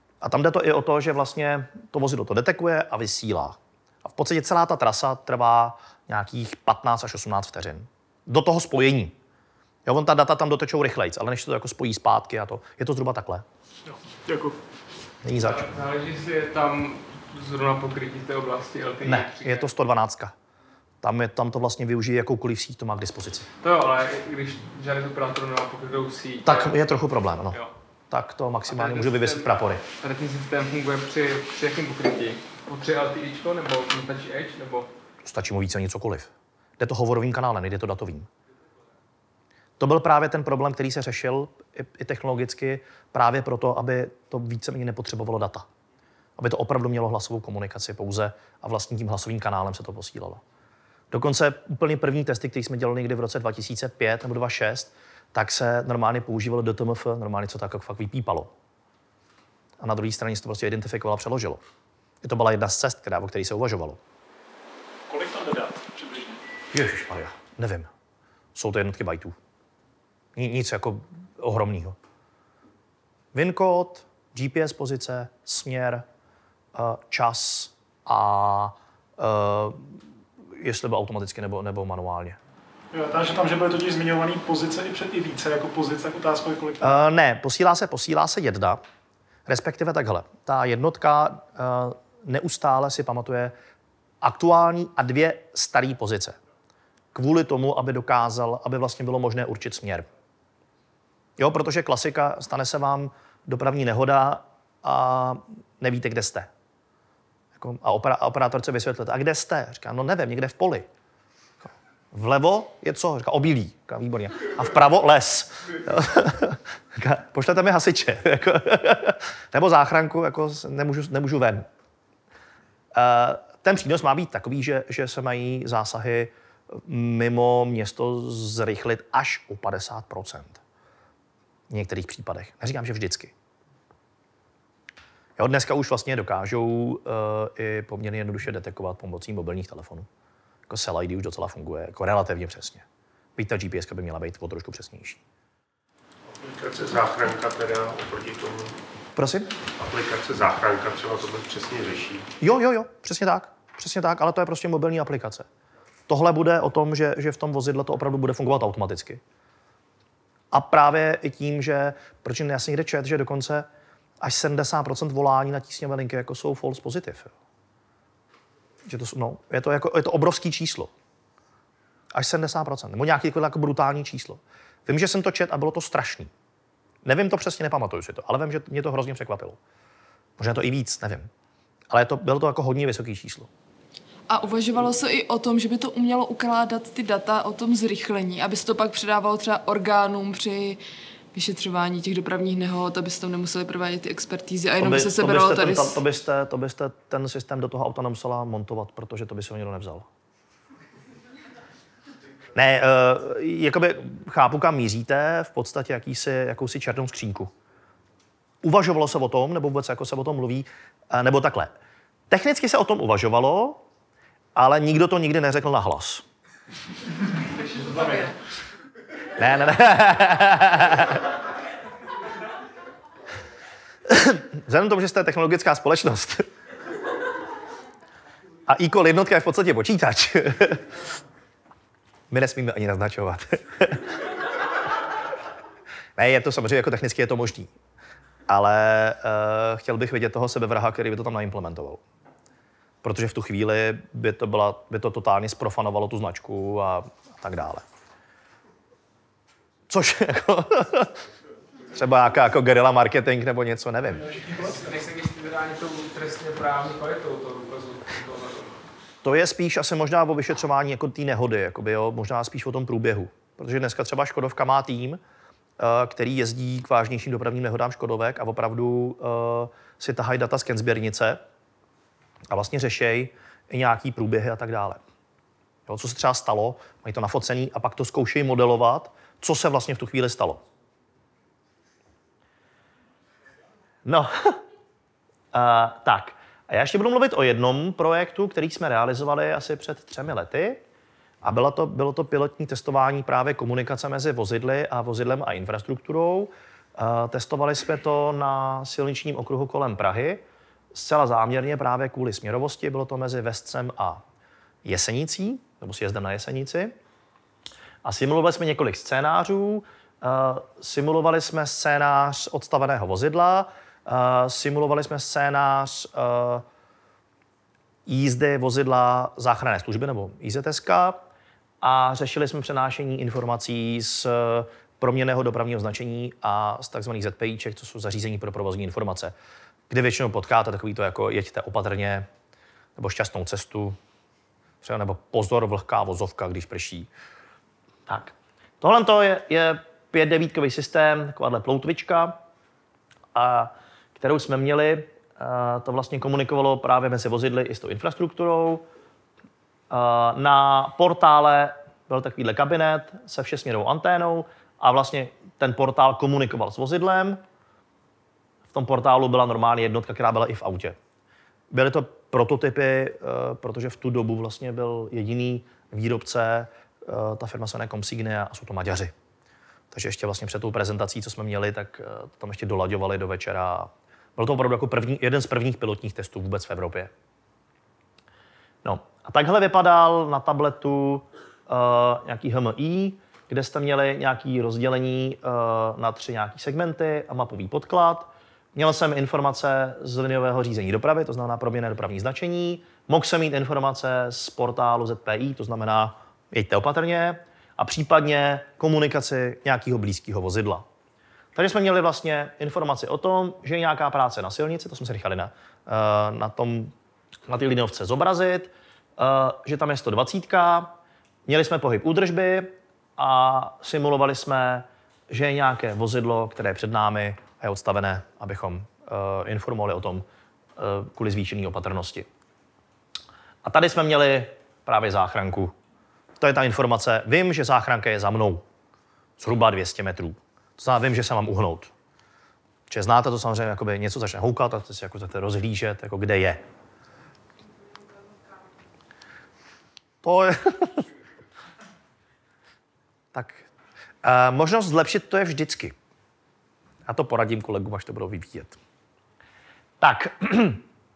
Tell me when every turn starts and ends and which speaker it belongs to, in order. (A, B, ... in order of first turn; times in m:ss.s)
0:00.2-0:09.2 A
0:09.9-0:13.4 A
0:13.9-0:14.6 B
0:15.2-0:15.6 A
0:15.4-0:19.7 C
0:19.0-0:20.4 A
0:21.0-0:23.5 A
0:23.6-0:26.8 C
0:26.4-0:27.6 A
0:28.1-0:29.8 A
0:28.7-0:34.9 C
0:35.2-0:38.3 A
0:39.8-0:45.7 A
0:46.4-0:50.4 A
0:51.1-0:58.5 A
0:59.8-1:01.6 A
1:02.2-1:04.0 A
1:05.1-1:06.4 B
1:06.7-1:07.9 A
1:08.6-1:09.4 A
1:10.4-1:12.0 A
1:13.3-1:16.0 A
1:16.8-1:20.0 A
1:20.6-1:22.4 A
1:22.9-1:26.9 B
1:26.8-1:28.8 A
1:29.5-1:33.6 A
1:34.2-1:36.4 A
1:37.1-1:40.1 A
1:41.4-1:46.5 A
1:47.6-1:50.9 A
1:52.1-2:01.7 A
2:02.9-2:10.6 A
2:11.7-2:13.3 A
2:15.4-2:20.1 A
2:20.7-2:22.8 A
2:23.4-2:25.2 A
2:26.4-2:28.7 D
2:29.2-2:29.5 A
2:29.8-2:32.3 D
2:32.4-2:35.5 A
2:36.1-2:39.2 A
2:40.5-2:43.7 A
2:44.2-2:47.3 A
2:48.9-2:50.9 A
2:52.1-2:56.3 A
2:57.0-2:59.6 A
3:00.4-3:01.3 A
3:01.9-3:03.5 A
3:04.3-3:10.8 E
3:11.3-3:16.0 E
3:14.8-3:20.1 A
3:22.6-3:27.5 A
3:28.6-3:31.7 A
3:32.3-3:33.8 A
3:34.6-3:36.2 A
3:37.8-3:38.2 B
3:39.4-3:41.2 A
3:44.1-3:46.5 A
3:48.7-3:50.8 A
3:52.3-3:54.1 A
3:56.2-3:57.7 A
3:58.5-4:02.0 A
4:03.0-4:07.8 A
4:09.9-4:11.1 A
4:11.9-4:14.3 A
4:14.2-4:14.9 B
4:14.7-4:18.8 C
4:19.2-4:25.2 A
4:25.8-4:31.4 A
4:32.5-4:35.0 A
4:35.9-4:40.6 A
4:44.1-4:44.6 A
4:45.5-4:50.8 A
4:51.4-5:04.2 A
5:04.8-5:06.9 A
5:08.0-5:16.6 A
5:18.1-5:21.2 A
5:21.8-5:29.3 A
5:29.9-5:32.3 A
5:33.0-5:34.0 A
5:34.8-5:37.1 A
5:38.1-5:42.4 A
5:43.4-5:48.8 A
5:49.9-5:57.4 A
5:58.7-6:01.0 A
6:01.7-6:09.1 A
6:09.9-6:17.1 A
6:18.8-6:40.8 A
6:41.6-6:46.9 A
6:47.5-6:50.9 A
6:51.5-7:00.2 A
7:00.8-7:02.3 A
7:03.6-7:05.7 A
7:06.4-7:08.6 A
7:09.4-7:11.9 A
7:12.9-7:16.6 A
7:20.2-7:21.0 A
7:23.3-7:23.6 A
7:24.2-7:26.0 A
7:27.1-7:28.8 A
7:30.0-7:30.8 A